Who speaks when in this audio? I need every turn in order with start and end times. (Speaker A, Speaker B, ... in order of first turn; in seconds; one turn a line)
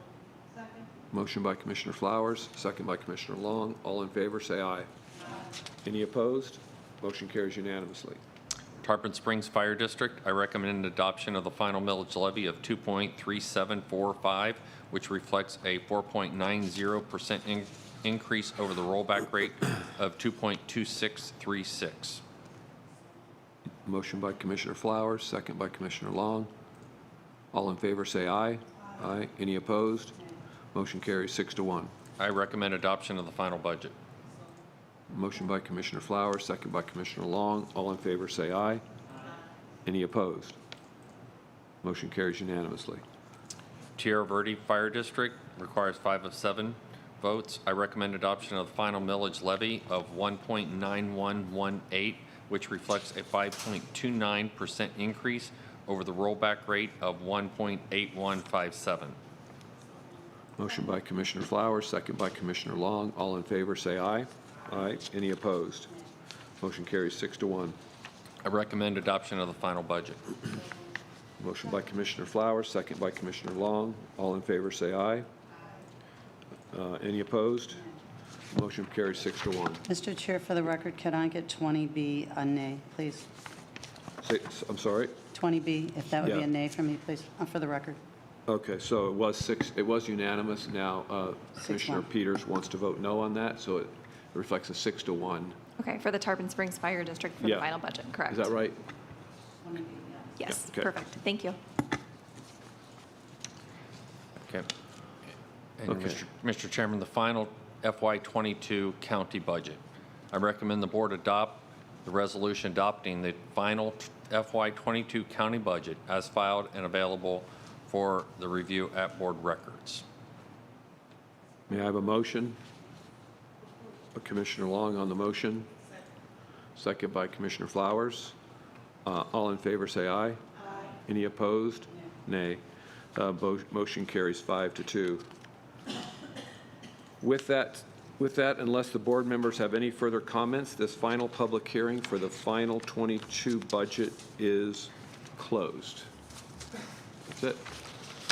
Speaker A: 1.1-4.9
Speaker A: 5.8-8.2
Speaker B: 8.8-22.2
Speaker A: 23.8-26.5
Speaker A: 27.5-30.2
Speaker A: 30.7-31.9
Speaker B: 32.2-33.9
Speaker A: 35.1-38.8
Speaker A: 39.8-40.6
Speaker A: 41.8-43.0
Speaker B: 44.0-59.2
Speaker A: 60.6-66.0
Speaker A: 66.6-67.8
Speaker B: 68.4-70.3
Speaker A: 71.4-75.3
Speaker A: 76.7-77.8
Speaker A: 78.5-79.9
Speaker C: 79.9-83.3
Speaker A: 84.2-85.2
Speaker C: 85.3-88.0
Speaker A: 88.5-95.6
Speaker C: 91.6-92.0
Speaker D: 95.8-98.5
Speaker A: 97.4-97.7
Speaker A: 98.2-98.8
Speaker D: 100.4-101.6
Speaker A: 100.5-101.0
Speaker B: 105.8-109.8
Speaker A: 105.9-106.2
Speaker B: 110.3-120.0
Speaker A: 121.7-122.6
Speaker A: 124.1-125.7
Speaker A: 126.8-128.3
Speaker A: 129.0-130.4
Speaker A: 131.0-132.6
Speaker A: 133.1-135.2
Speaker A: 137.2-146.1
Speaker A: 147.3-147.7